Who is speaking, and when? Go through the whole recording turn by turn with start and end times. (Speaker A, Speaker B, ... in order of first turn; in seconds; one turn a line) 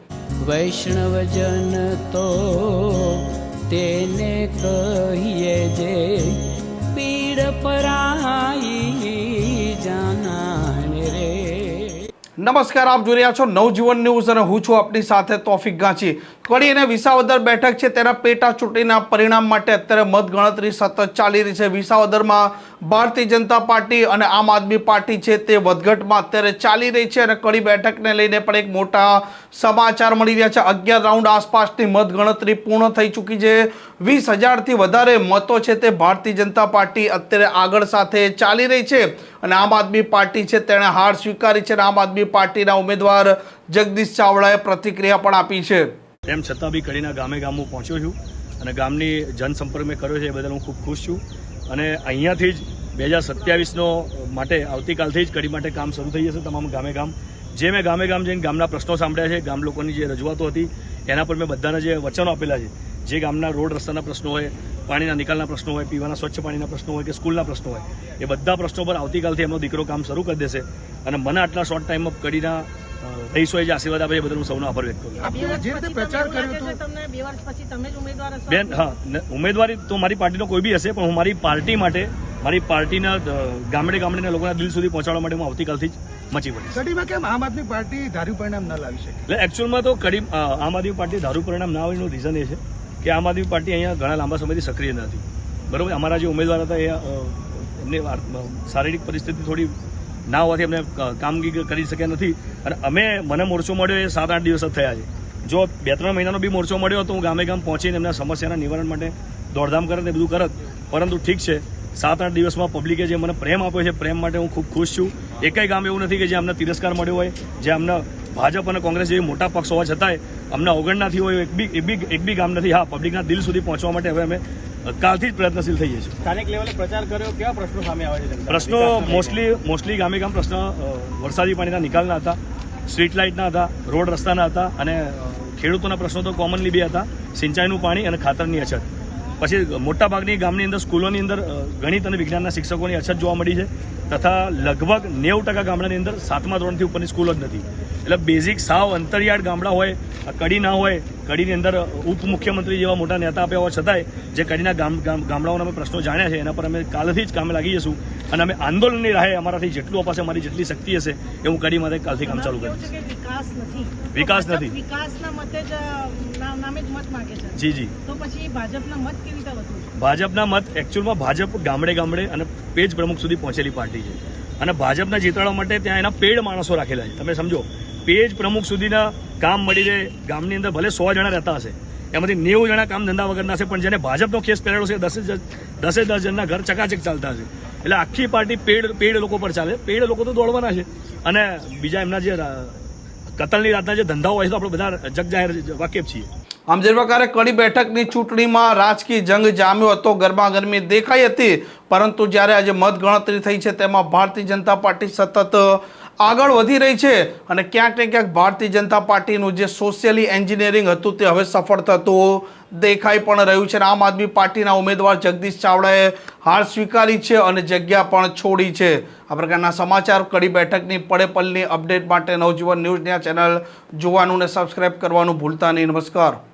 Speaker A: 0.4-12.1
Speaker B: 12.4-45.9
Speaker C: 46.3-75.3
Speaker D: 75.2-76.8
Speaker E: 75.3-78.9
Speaker C: 78.5-86.8
Speaker D: 86.7-89.2
Speaker C: 89.3-99.7
Speaker C: 100.3-126.2
Speaker F: 126.2-129.4
Speaker C: 128.5-132.4
Speaker C: 132.9-138.8
Speaker C: 139.4-162.9
Speaker E: 162.2-169.9
Speaker C: 164.1-164.7
Speaker C: 167.5-167.9
Speaker C: 170.0-192.8
Speaker C: 193.4-196.3
Speaker B: 196.7-226.4